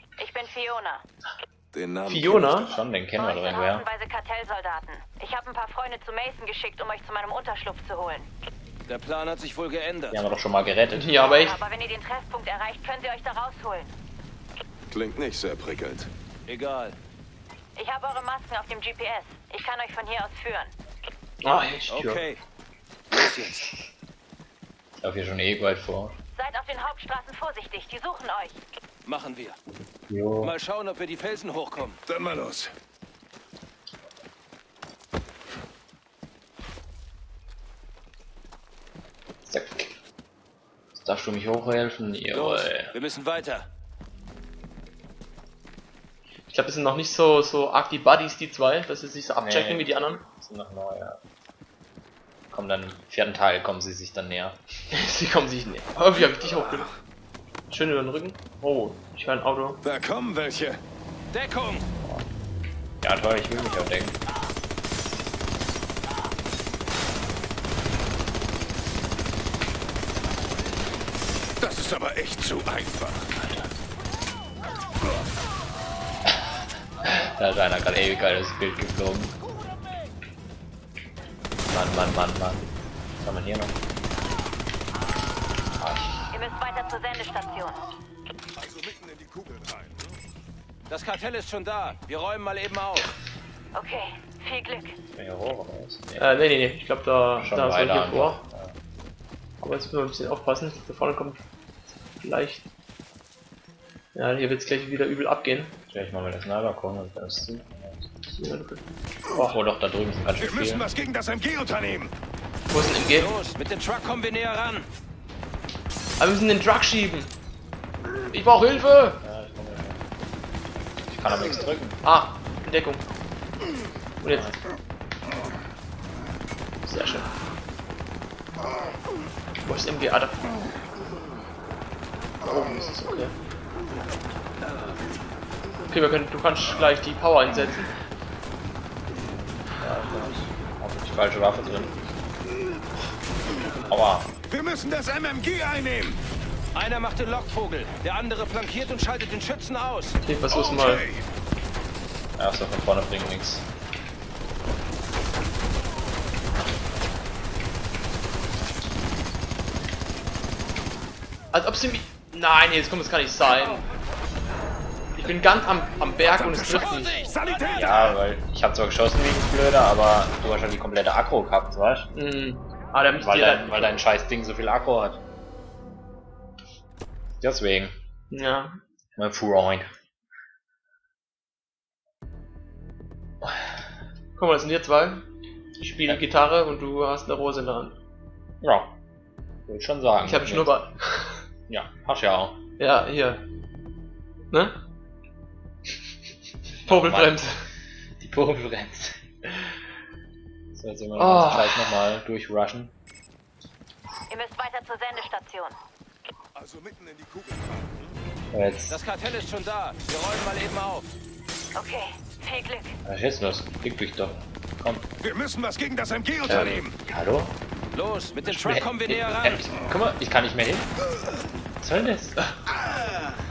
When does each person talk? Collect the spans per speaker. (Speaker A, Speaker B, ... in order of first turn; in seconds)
Speaker A: 0.2-1.0, 3.2-8.3, 11.2-13.9, 17.8-20.7, 26.3-28.6, 86.3-87.8, 93.7-95.0, 204.3-205.8, 211.8-213.0
Speaker B: 1.7-2.8, 14.9-16.1, 23.1-23.6, 32.1-32.7, 59.8-60.8, 71.6-73.3, 88.6-90.1, 110.4-112.1, 144.5-146.2, 150.5-151.2, 166.3-167.9, 206.6-208.2, 215.2-216.9
Speaker C: 2.1-2.7, 11.0-11.6, 21.4-22.3, 46.5-50.3, 54.9-56.9, 57.7-59.8, 96.2-98.4, 99.6-101.4, 102.2-102.7, 104.2-105.8, 108.3-109.6, 112.7-113.4, 116.2-117.3, 118.3-119.2, 122.0-123.1, 124.2-124.6, 126.8-127.3, 129.6-130.7, 132.4-133.4, 135.9-137.9, 150.2-151.1, 161.5-163.9, 165.2-167.2, 172.2-174.0, 178.3-178.8, 184.4-185.3, 185.8-188.0, 190.2-191.4, 192.8-193.4, 194.5-194.8, 196.9-197.7, 201.2-202.0, 216.5-216.8
Speaker D: 2.6-3.9, 10.1-11.1, 25.0-26.2, 30.1-30.5, 39.5-40.0, 41.0-43.0, 49.4-51.2, 52.5-54.6, 62.0-62.3, 63.0-64.2, 77.0-79.3, 81.7-83.8, 85.8-86.3, 95.2-96.3, 97.4-98.8, 105.9-108.1, 109.4-110.9, 119.2-120.1, 121.1-122.0, 124.3-124.7, 139.8-142.0, 143.9-144.3, 152.4-153.7, 167.7-172.1, 173.2-175.2, 177.4-178.0, 179.2-179.9, 188.6-189.0, 189.7-190.8, 191.7-192.6, 196.8-197.4, 198.2-199.2, 200.8-202.9, 208.5-209.0, 213.1-215.1, 216.8-217.6, 218.4-220.9, 221.8-222.4
Speaker E: 8.9-10.2, 16.5-17.0, 21.9-22.4, 23.2-23.6, 29.1-29.6, 30.4-32.0, 42.3-43.7, 61.3-61.9, 90.9-93.1, 113.2-114.9, 146.8-150.2, 208.9-211.1, 217.9-219.7